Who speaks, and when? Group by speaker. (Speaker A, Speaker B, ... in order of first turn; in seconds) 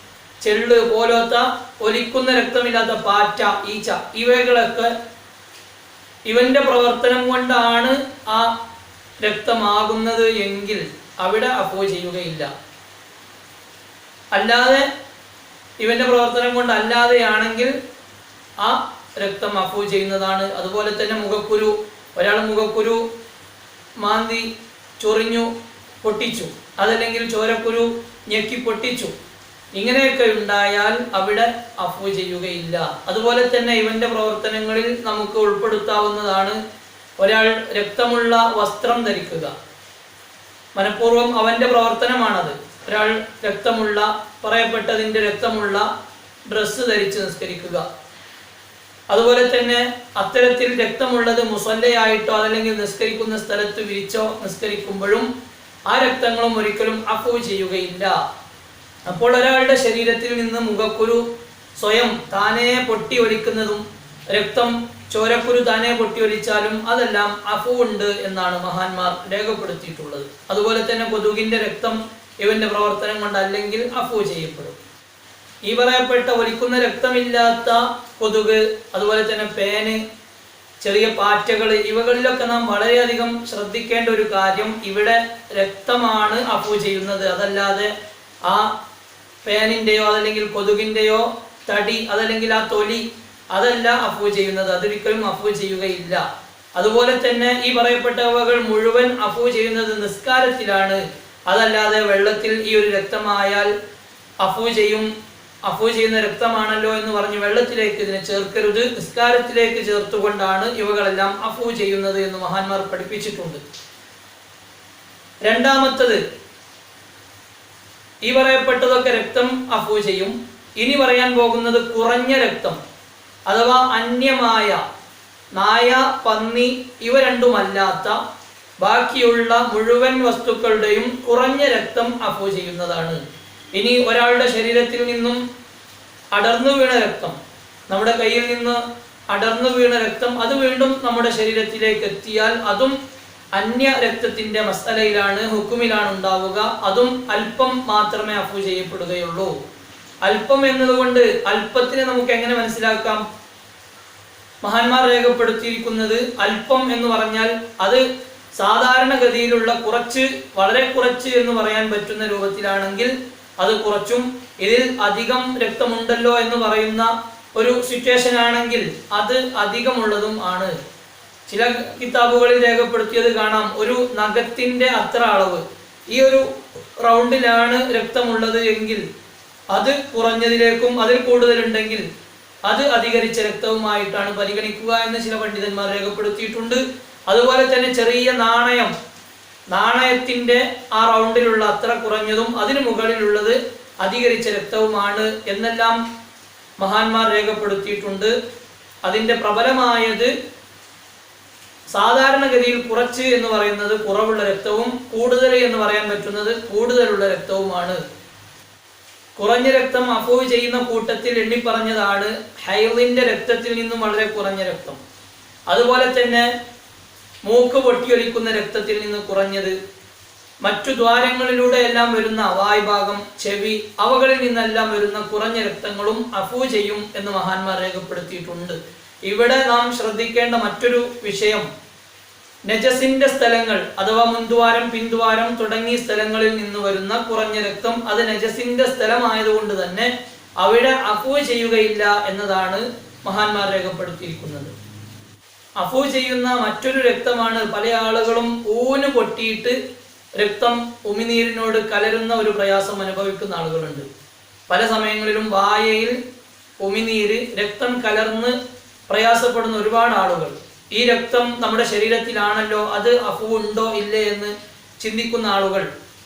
Speaker A: 0.4-4.9, 6.3-8.6, 9.2-12.5, 14.3-14.9, 15.8-17.7, 18.6-23.0, 24.0-24.5, 25.0-25.5, 26.0-29.1, 29.7-36.6, 37.2-39.5, 40.8-45.9, 46.5-47.9, 49.1-55.3, 55.9-58.1, 59.1-61.2, 61.8-74.8, 75.7-80.0, 80.8-87.9, 88.5-88.7, 89.4-96.2, 96.8-103.7, 104.4-105.1, 105.7-113.6, 115.4-116.2, 118.2-122.8, 123.5-124.8, 125.5-128.2, 128.8-133.2, 133.7-135.4, 136.3-137.4, 137.9-142.9, 143.5-149.5, 150.2-153.2, 154.6-158.0, 158.5-170.8, 171.5-179.0, 179.7-182.0, 182.7-188.9, 189.7-196.0, 196.8-198.3, 199.0-200.3, 201.9-208.0, 209.4-215.0, 215.7-216.5, 217.4-219.7, 220.6-231.7, 232.7-244.7, 245.8-249.8, 250.4-254.1, 254.7-256.2, 256.8-258.5, 259.1-265.9